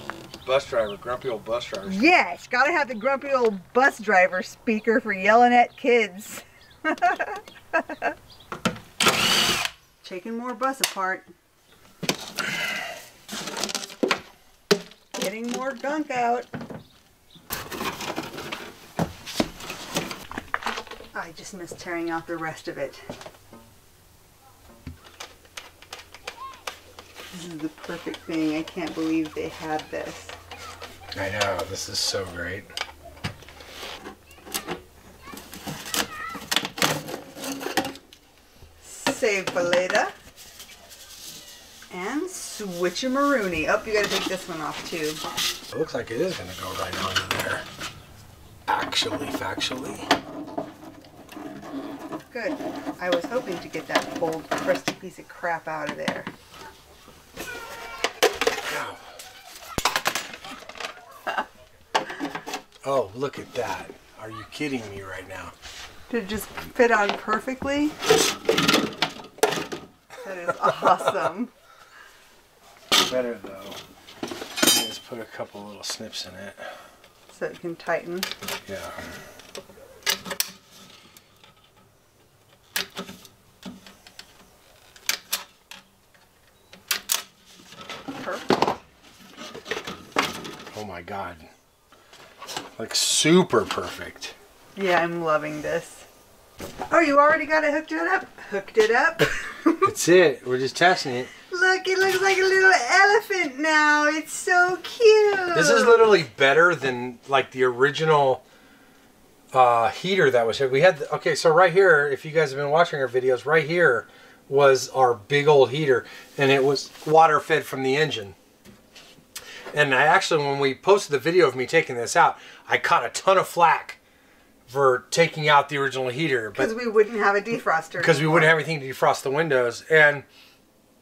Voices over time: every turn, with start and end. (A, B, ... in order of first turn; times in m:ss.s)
0:00.4-0:02.0 A
0:01.8-0:08.1 B
0:10.0-0:11.3 B
0:15.1-0:16.5 B
0:21.1-0:23.0 B
0:27.3-0:30.4 B
0:31.1-0:32.7 A
0:38.8-0:40.1 B
0:41.9-0:45.2 B
0:45.7-0:47.6 A
0:48.7-0:50.1 A
0:52.3-0:56.3 B
0:58.6-0:59.0 A
1:02.8-1:05.5 A
1:06.1-1:07.9 B
1:10.2-1:11.5 B
1:13.0-1:13.8 A
1:14.6-1:16.7 A
1:17.3-1:18.3 B
1:18.6-1:19.1 A
1:28.1-1:28.5 B
1:30.7-1:31.5 A
1:32.8-1:34.3 A
1:34.8-1:36.1 B
1:36.9-1:39.9 B
1:39.8-1:41.3 A
1:41.5-1:46.1 B
1:45.5-1:48.4 A
1:49.5-1:58.4 A
1:59.7-2:04.0 A
2:04.7-2:06.7 A
2:06.5-2:08.6 B
2:08.0-2:10.2 A